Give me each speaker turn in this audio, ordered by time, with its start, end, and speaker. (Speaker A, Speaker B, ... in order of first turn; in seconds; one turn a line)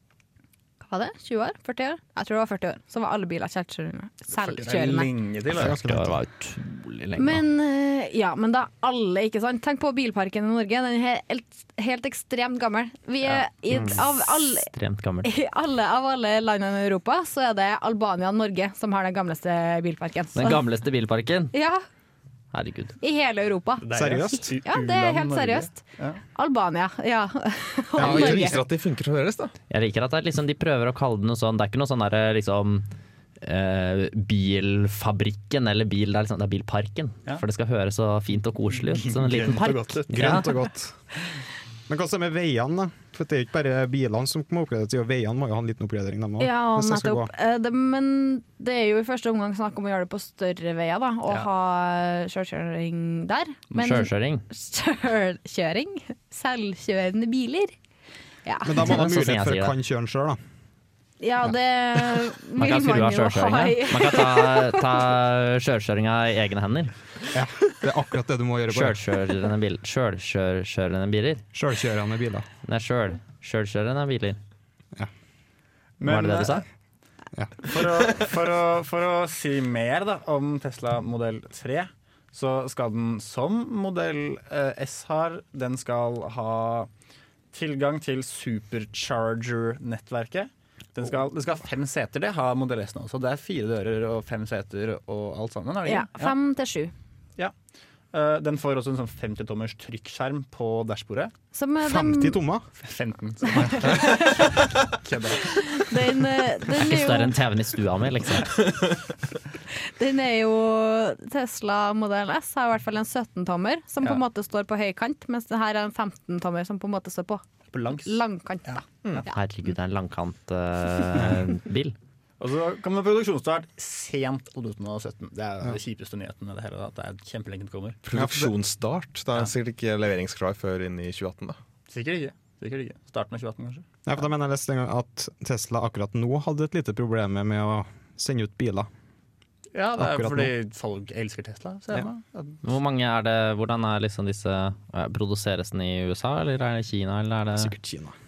Speaker A: 0.8-5.1
Speaker B: 4.3-5.8
Speaker C: 5.5-7.4
Speaker D: 5.5-6.2
Speaker A: 7.2-14.7
Speaker C: 13.8-15.3
Speaker A: 15.2-20.6
Speaker C: 20.4-21.5
Speaker A: 21.5-21.8
Speaker C: 22.5-23.0
Speaker A: 23.0-25.8
Speaker B: 23.8-26.2
Speaker D: 23.9-24.5
Speaker A: 26.3-28.6
Speaker D: 28.0-28.6
Speaker E: 28.0-29.5
Speaker C: 29.7-32.9
Speaker C: 33.4-40.5
Speaker B: 38.8-40.5
Speaker D: 40.1-41.0
Speaker D: 41.9-47.3
Speaker A: 46.4-57.7
Speaker C: 53.8-54.5
Speaker A: 58.5-58.9
Speaker D: 58.6-60.4
Speaker C: 58.8-59.8
Speaker A: 61.2-64.9
Speaker C: 62.6-66.9
Speaker D: 67.3-69.0
Speaker C: 68.7-71.4
Speaker D: 71.5-72.5
Speaker C: 72.6-74.4
Speaker B: 76.0-76.6
Speaker C: 76.0-76.6
Speaker D: 77.3-78.2
Speaker B: 77.6-86.9
Speaker B: 87.5-96.3
Speaker A: 95.8-96.9
Speaker B: 98.1-101.3
Speaker A: 101.5-102.4
Speaker D: 101.8-102.7
Speaker B: 102.8-105.6
Speaker A: 103.5-104.5
Speaker A: 105.5-107.3
Speaker C: 106.8-108.6
Speaker A: 109.8-117.4
Speaker B: 117.7-119.3
Speaker A: 118.0-118.8
Speaker C: 119.3-122.0
Speaker B: 122.4-128.0
Speaker E: 128.0-131.6
Speaker D: 128.1-128.6
Speaker B: 131.9-133.9
Speaker D: 134.1-138.9
Speaker B: 139.7-142.6
Speaker D: 140.0-140.5
Speaker C: 142.6-147.7
Speaker D: 147.6-148.2